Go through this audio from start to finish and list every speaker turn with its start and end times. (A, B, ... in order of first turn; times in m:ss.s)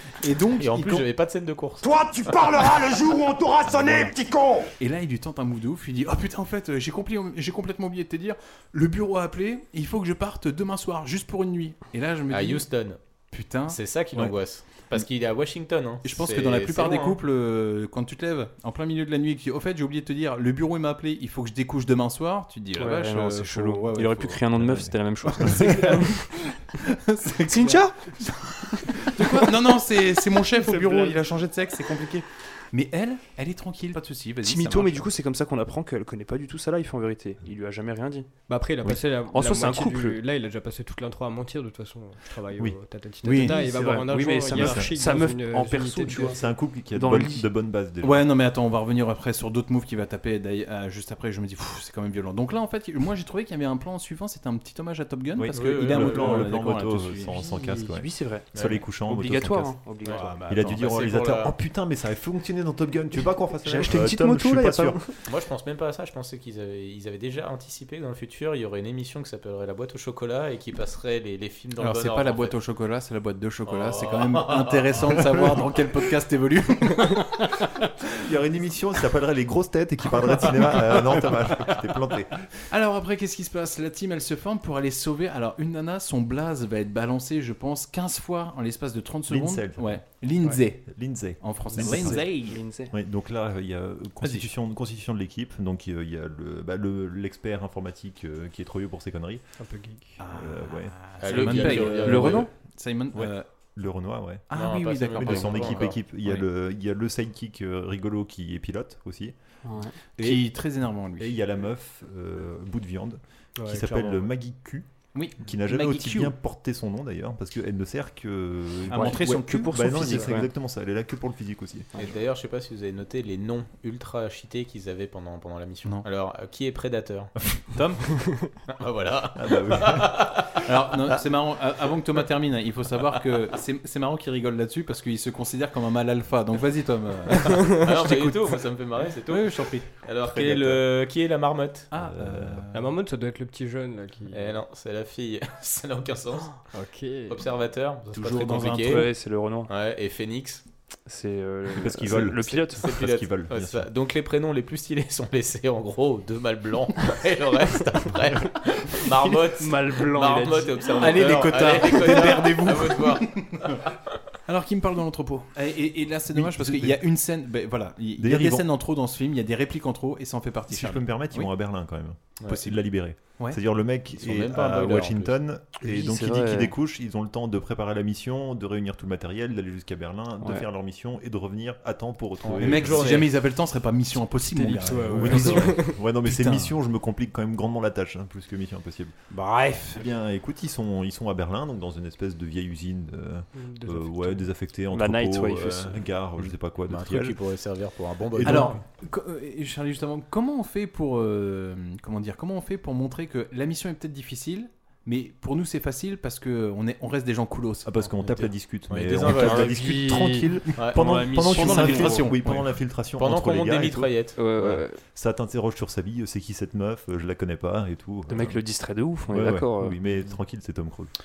0:00.2-0:01.1 A
0:00.6-0:01.9 B
0:01.8-0:04.7 C
0:03.6-0:04.1 A
0:04.8-0:12.7 A
0:12.3-0:13.0 B
0:13.3-0:14.4 A
0:13.7-0:17.2 B
0:16.0-0:24.5 A
0:22.8-0:26.2 D
0:24.6-0:24.9 E
0:25.2-0:35.1 A
0:27.5-0:27.9 D
0:34.4-0:38.3 D
0:38.5-0:46.4 F
0:39.3-0:40.2 D
0:43.2-0:44.0 A
0:43.4-0:46.4 D
0:44.5-0:44.9 E
0:46.1-0:48.3 E
0:46.9-0:47.4 D
0:48.0-0:57.6 A
0:55.5-0:56.5 B
0:55.7-0:59.8 E
0:57.6-1:00.3 D
0:58.5-0:58.8 B
1:00.0-1:01.5 B
1:00.1-1:00.9 A
1:00.5-1:05.0 E
1:03.6-1:05.1 D
1:05.3-1:12.6 B
1:11.8-1:17.3 A
1:13.7-1:15.3 B
1:18.2-1:22.4 E
1:22.7-1:32.6 A
1:29.3-1:30.0 E
1:30.8-1:39.4 E
1:31.8-1:32.9 D
1:34.2-1:34.5 A
1:39.6-1:40.2 F
1:40.2-1:43.5 A
1:40.3-1:41.0 E
1:41.2-1:42.4 B
1:41.4-1:42.5 D
1:43.1-1:44.5 E
1:44.5-1:46.5 A
1:44.5-1:46.0 B
1:45.2-1:49.4 E
1:49.6-1:49.9 D
1:50.2-1:51.4 A
1:50.2-1:50.4 E
1:51.2-2:01.9 E
1:53.6-1:54.2 F
1:55.1-1:56.3 A
1:58.9-2:00.4 A
1:59.0-2:00.5 D
2:02.0-2:07.3 B
2:07.7-2:08.1 A
2:08.8-2:10.6 B
2:09.3-2:10.4 E
2:10.7-2:18.6 A
2:17.6-2:21.9 B
2:19.3-2:20.0 A
2:20.2-2:20.8 E
2:21.9-2:22.9 A
2:22.0-2:22.6 E
2:22.7-2:24.6 F
2:24.3-2:26.6 B
2:26.7-2:27.4 F
2:27.3-2:29.1 B
2:28.1-2:29.1 A
2:28.8-2:29.7 D
2:29.7-2:30.6 B
2:31.0-2:32.8 D
2:31.7-2:33.9 E
2:32.8-2:43.8 B
2:39.6-2:40.8 F
2:41.0-2:43.8 A
2:44.5-2:51.5 A
2:46.3-2:47.0 E
2:48.2-2:48.7 E
2:50.7-3:03.2 E
2:52.4-2:52.6 B
2:52.5-2:52.8 A
2:54.1-2:55.4 B
2:55.8-2:56.7 D
3:02.4-3:03.4 B
3:02.5-3:06.8 A
3:04.4-3:06.0 F
3:05.1-3:09.2 E
3:09.3-3:10.0 A
3:09.9-3:17.4 E
3:13.5-3:14.5 F
3:14.9-3:16.0 D
3:16.9-3:18.8 B
3:18.4-3:18.8 E
3:18.4-3:27.9 A
3:27.8-3:38.6 E
3:28.0-3:29.8 B
3:29.2-3:32.4 D
3:30.8-3:31.2 B
3:31.4-3:32.7 A
3:33.2-3:34.4 B
3:34.4-3:35.0 D
3:38.3-3:40.0 D
3:39.3-3:41.1 E